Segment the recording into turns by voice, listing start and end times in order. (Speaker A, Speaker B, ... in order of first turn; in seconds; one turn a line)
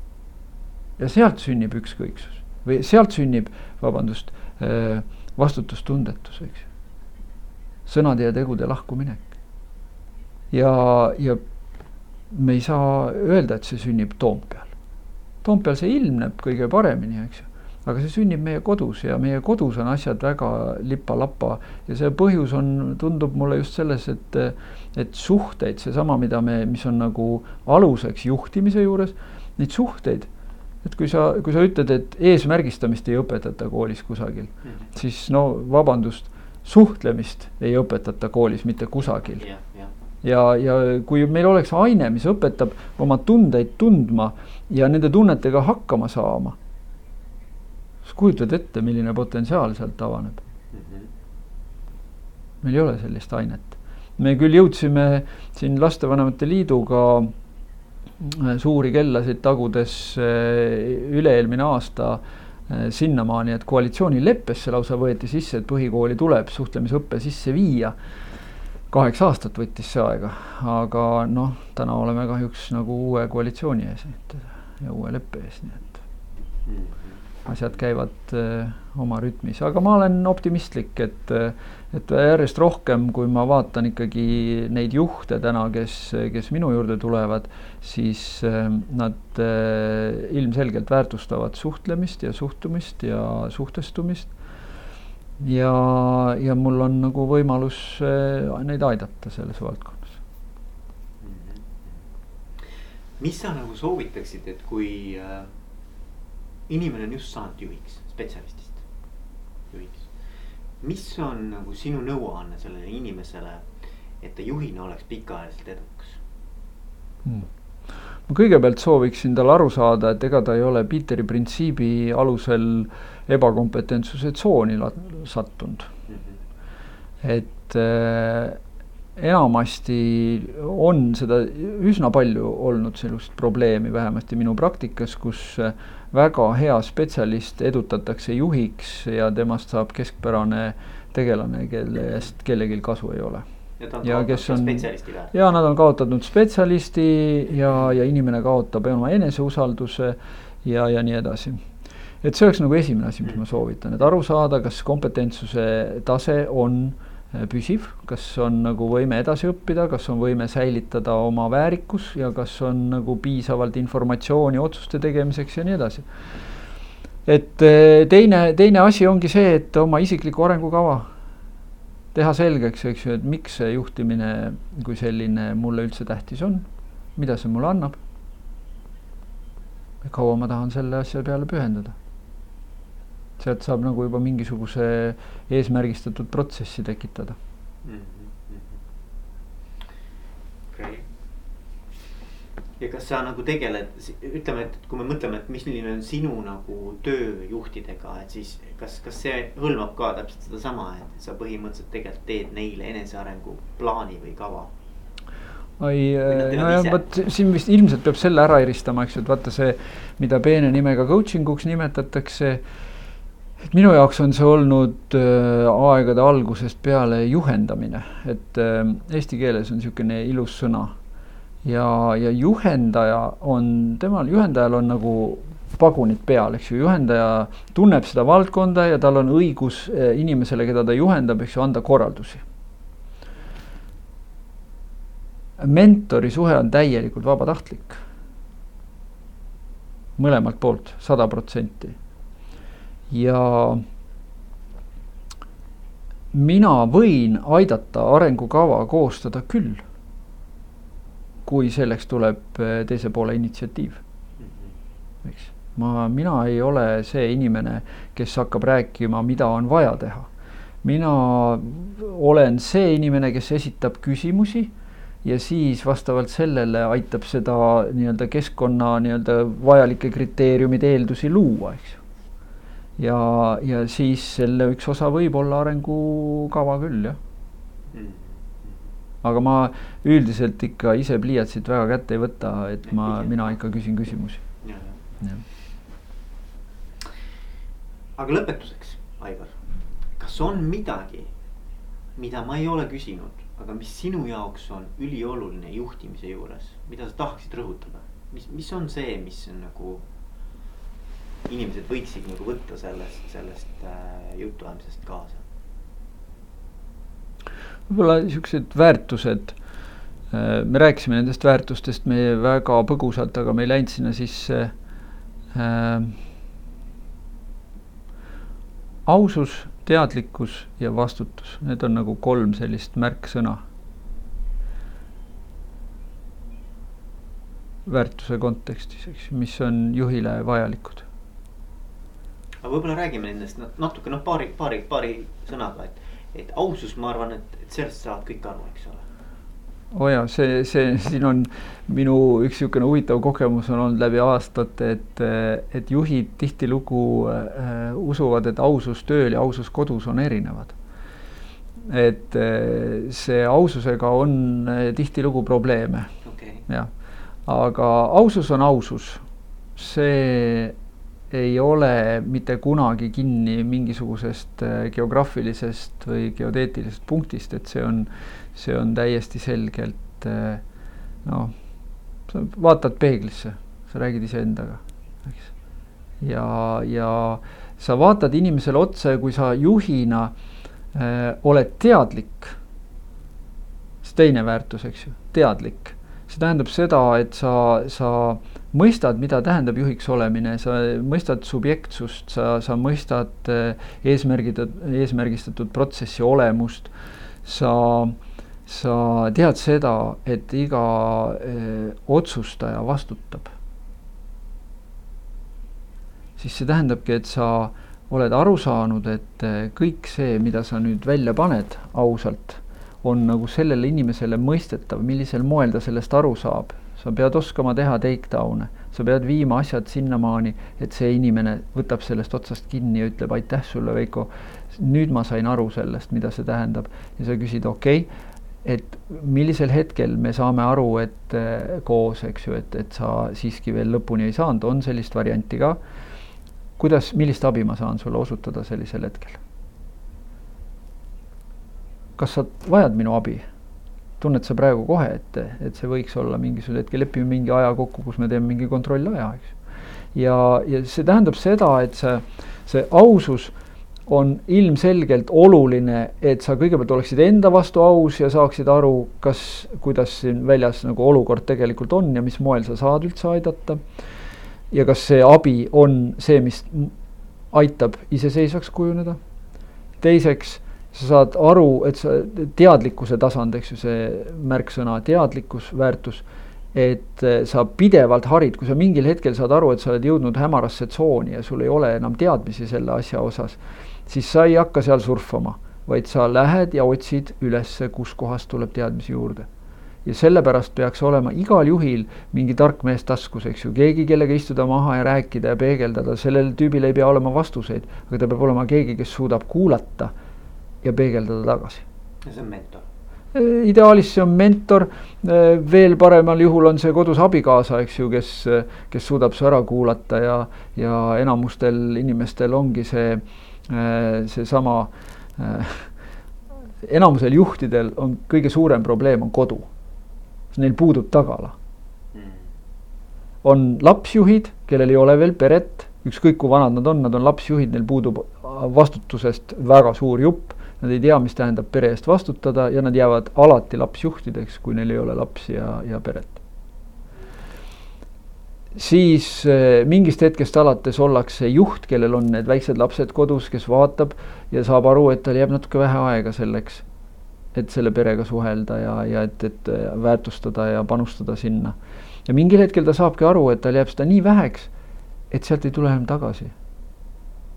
Speaker A: 1.0-6.7
Speaker A: 7.9-9.3
Speaker A: 10.5-11.4
Speaker A: 12.3-14.7
Speaker A: 15.4-30.3
Speaker A: 30.8-39.4
Speaker B: 39.3-39.9
Speaker A: 40.2-46.5
Speaker A: 48.0-50.4
Speaker B: 50.7-51.1
Speaker A: 52.6-57.3
Speaker A: 58.2-67.9
Speaker A: 68.9-76.0
Speaker B: 76.7-77.2
Speaker A: 77.5-94.3
Speaker A: 95.4-100.2
Speaker B: 101.2-102.0
Speaker B: 102.6-105.5
Speaker B: 106.7-108.8
Speaker B: 109.7-110.1
Speaker B: 110.8-113.7
Speaker B: 114.2-116.2
Speaker A: 118.3-125.9
Speaker B: 126.1-126.3
Speaker A: 127.2-128.6
Speaker A: 129.2-143.4
Speaker B: 143.8-145.3
Speaker A: 144.0-151.6
Speaker A: 152.2-166.0
Speaker A: 167.2-171.1
Speaker A: 172.1-178.0
Speaker A: 180.0-181.9
Speaker A: 183.4-187.4
Speaker B: 187.8-188.8
Speaker B: 190.7-191.1
Speaker B: 192.8-204.7
Speaker A: 205.8-212.6
Speaker B: 206.3-207.0
Speaker A: 213.7-220.9
Speaker A: 221.6-232.4
Speaker A: 235.6-238.0
Speaker A: 240.2-241.9
Speaker A: 243.1-243.8
Speaker A: 246.3-249.8
Speaker A: 251.4-254.0
Speaker B: 254.4-254.7
Speaker A: 255.2-260.3
Speaker A: 260.8-264.7
Speaker A: 265.2-272.0
Speaker A: 273.0-277.2
Speaker B: 277.9-278.8
Speaker A: 279.2-284.4
Speaker B: 282.9-283.6
Speaker B: 284.6-285.0
Speaker B: 288.2-289.6
Speaker B: 290.2-291.3
Speaker B: 292.1-300.1
Speaker B: 301.4-305.4
Speaker A: 307.9-309.6
Speaker A: 310.3-314.7
Speaker A: 315.5-316.2
Speaker A: 319.1-323.6
Speaker A: 327.9-331.1
Speaker B: 332.6-339.1
Speaker A: 339.9-350.7
Speaker A: 351.8-356.1
Speaker B: 356.2-356.6
Speaker A: 357.4-359.2
Speaker A: 359.8-360.7
Speaker A: 361.3-370.6
Speaker A: 371.2-371.5
Speaker A: 372.3-375.5
Speaker A: 376.2-380.3
Speaker A: 380.9-382.6
Speaker A: 384.0-396.9
Speaker A: 397.4-403.5
Speaker A: 406.4-428.1
Speaker A: 428.6-435.8
Speaker A: 436.8-439.4
Speaker A: 442.2-443.4
Speaker A: 444.2-449.6
Speaker A: 450.1-453.5
Speaker A: 454.1-463.8
Speaker A: 464.7-466.9
Speaker A: 467.5-469.2
Speaker A: 470.0-489.5
Speaker A: 490.0-500.1
Speaker A: 500.8-501.8
Speaker B: 502.2-502.9
Speaker A: 503.3-515.9
Speaker A: 516.8-519.7
Speaker A: 520.5-521.5
Speaker B: 522.1-522.4
Speaker A: 523.4-536.4
Speaker A: 538.7-546.8
Speaker A: 547.5-551.7
Speaker A: 552.2-554.7
Speaker A: 555.3-556.5